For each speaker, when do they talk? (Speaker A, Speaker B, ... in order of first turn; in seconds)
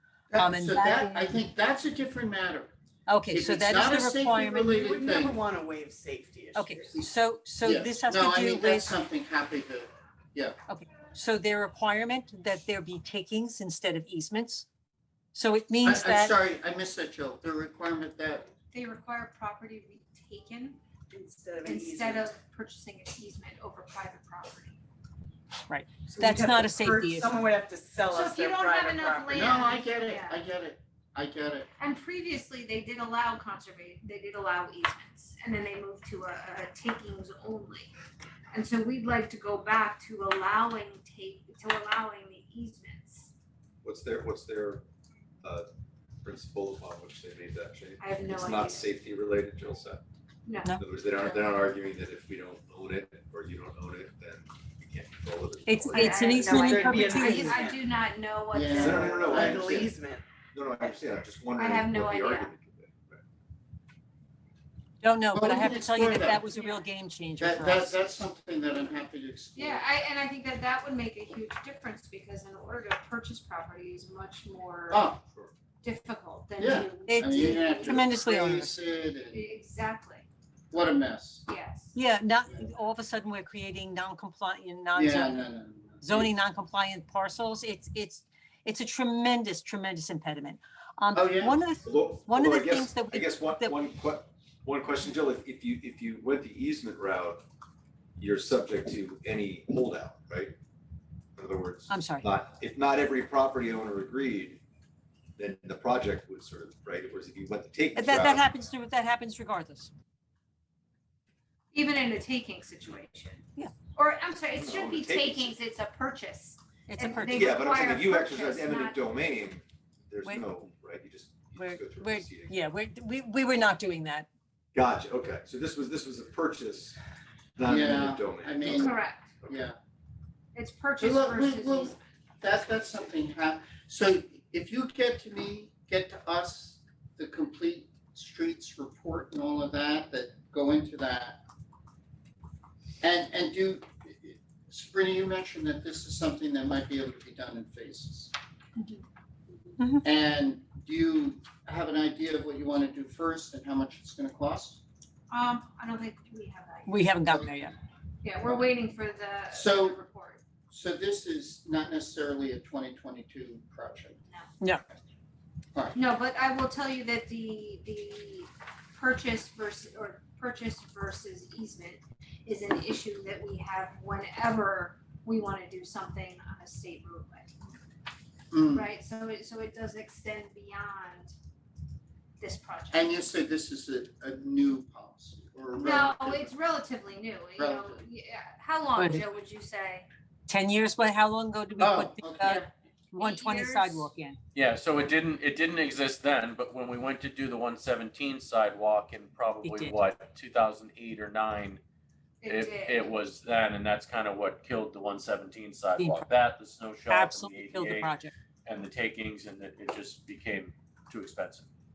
Speaker A: 0.3-2.7, 3.3-5.4, 7.6-10.6, 15.8-18.5, 29.3-31.7, 58.5-59.9, 65.3-66.5, 67.4-69.9, 74.9-75.2, 76.6-79.5, 80.7-81.5, 84.9-86.3, 91.1-91.6, 127.6-128.9, 129.5-129.8, 131.0-141.4, 143.0-148.3, 150.0-154.8, 157.3-157.5, 158.4-158.8, 159.5-160.0, 160.7-164.2, 178.5-178.9, 182.9-186.5, 187.6-188.0, 191.8-192.7
Speaker B: 0.3-1.4, 3.1-4.8, 6.5-8.9, 10.7-14.7, 15.3-16.3, 25.7-27.3, 55.7-57.6, 65.0-68.0, 77.1-78.7, 81.9-85.5, 86.0-93.8, 101.9-102.3, 108.0-109.9, 116.9-117.5, 121.6-124.3, 156.9-157.7, 189.0-189.2, 190.5-194.4, 199.6-200.0, 206.0-206.3, 207.1-208.3
Speaker C: 4.5-7.0, 21.1-22.3, 26.1-29.4, 56.6-57.8, 58.8-60.3
Speaker D: 18.7-20.8, 21.6-24.8, 28.1-30.4, 31.8-37.9, 38.5-43.3, 48.0-49.0, 50.5-51.4, 55.9-59.0, 61.5-62.5, 66.5-66.8, 69.6-75.2, 75.8-78.1, 79.3-80.3, 81.5-82.0, 111.7-119.0, 128.6-129.4, 130.5-132.0, 155.3-157.1, 158.2-160.4, 165.9-177.5, 178.7-181.3, 182.4-183.2, 185.8-190.1, 193.2-194.1, 202.4-203.2
Speaker E: 43.8-44.8, 45.4-45.7, 46.2-50.0, 50.8-56.6, 58.8-59.9, 60.5-63.2, 91.8-97.4, 98.2-100.6, 101.4-104.6, 105.4-108.5, 114.5-115.5, 117.3-122.5, 124.7-127.0, 127.6-128.9
Speaker F: 194.6-201.8, 202.5-208.1, 208.7-211.7